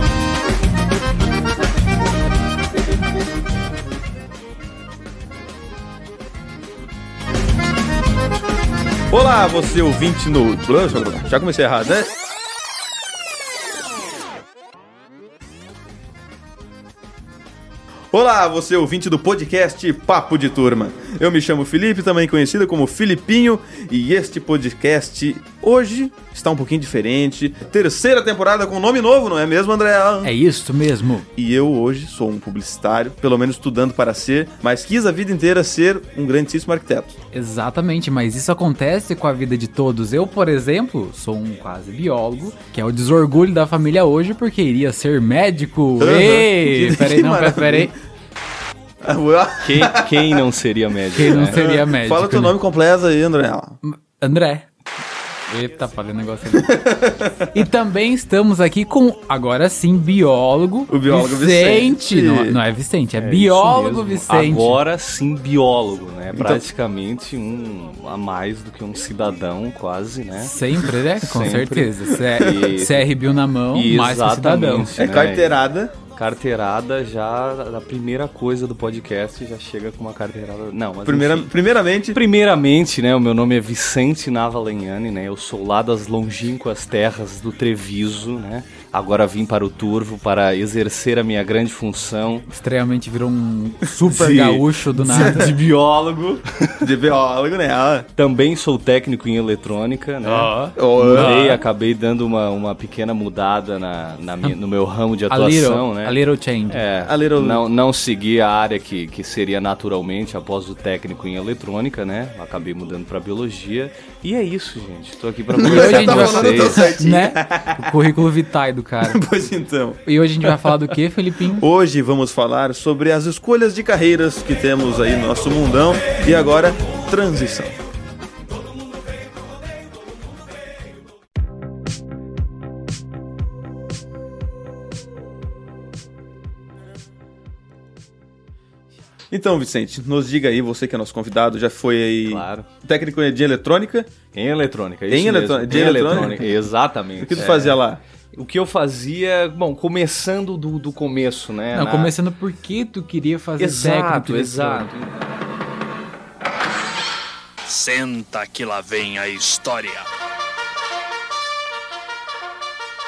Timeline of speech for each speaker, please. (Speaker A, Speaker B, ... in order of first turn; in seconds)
Speaker A: 9.1-12.1, 18.1-30.3, 31.4-37.1, 46.0-47.9, 49.0-50.5, 51.2-53.8, 56.5-57.5, 60.9-62.6, 66.3-66.6, 74.9-75.9, 81.0-82.2, 95.1-95.5, 96.8-98.1, 100.8-101.5, 107.0-107.6, 115.5-118.0, 119.0-120.0, 121.5-127.7, 139.3-144.1, 145.1-146.5, 147.2-148.0
Speaker B: 30.2-31.3, 37.3-47.9, 51.1-52.5, 53.8-54.7, 55.5-56.8, 57.5-64.8, 70.4-74.9, 92.5-95.5, 100.2-101.6, 105.3-106.8, 115.6-119.2, 120.0-121.7, 145.7-146.4, 151.7-154.9
Speaker C: 49.6-51.6, 63.2-70.5, 71.2-73.1, 73.7-75.6, 76.1-81.5, 82.1-92.5, 94.1-96.9, 98.2-106.2, 106.7-116.9, 142.2-142.7, 144.3-147.8, 148.3-152.1, 153.6-155.2
Speaker D: 157.7-160.1